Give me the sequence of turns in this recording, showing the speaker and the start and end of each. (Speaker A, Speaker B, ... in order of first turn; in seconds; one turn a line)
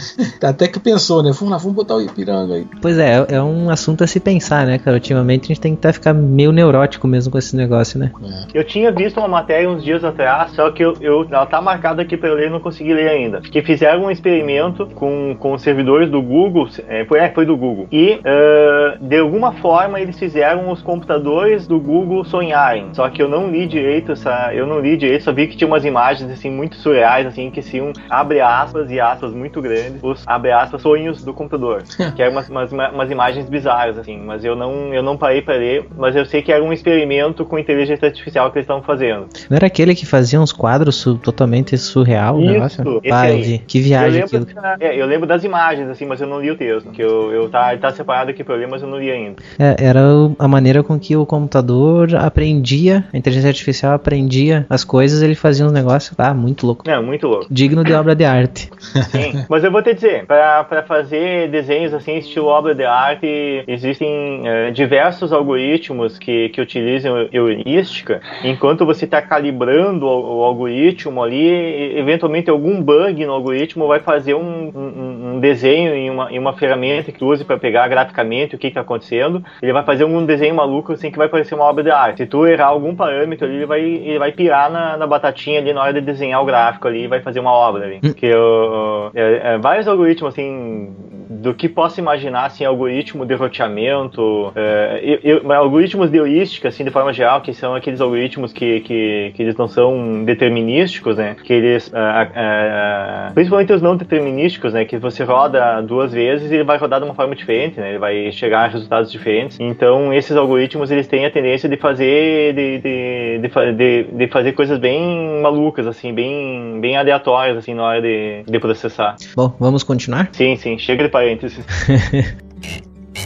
Speaker A: 0.2-2.7
Speaker B: 2.8-8.1
Speaker A: 8.2-8.5
Speaker C: 8.5-39.3
Speaker B: 39.5-44.5
Speaker C: 42.4-49.4
Speaker B: 49.6-56.8
Speaker C: 56.9-57.5
Speaker B: 57.5-58.7
Speaker A: 58.9-59.2
Speaker C: 59.1-119.2
Speaker B: 119.4-120.3
Speaker C: 120.3-121.7
Speaker B: 121.8-122.3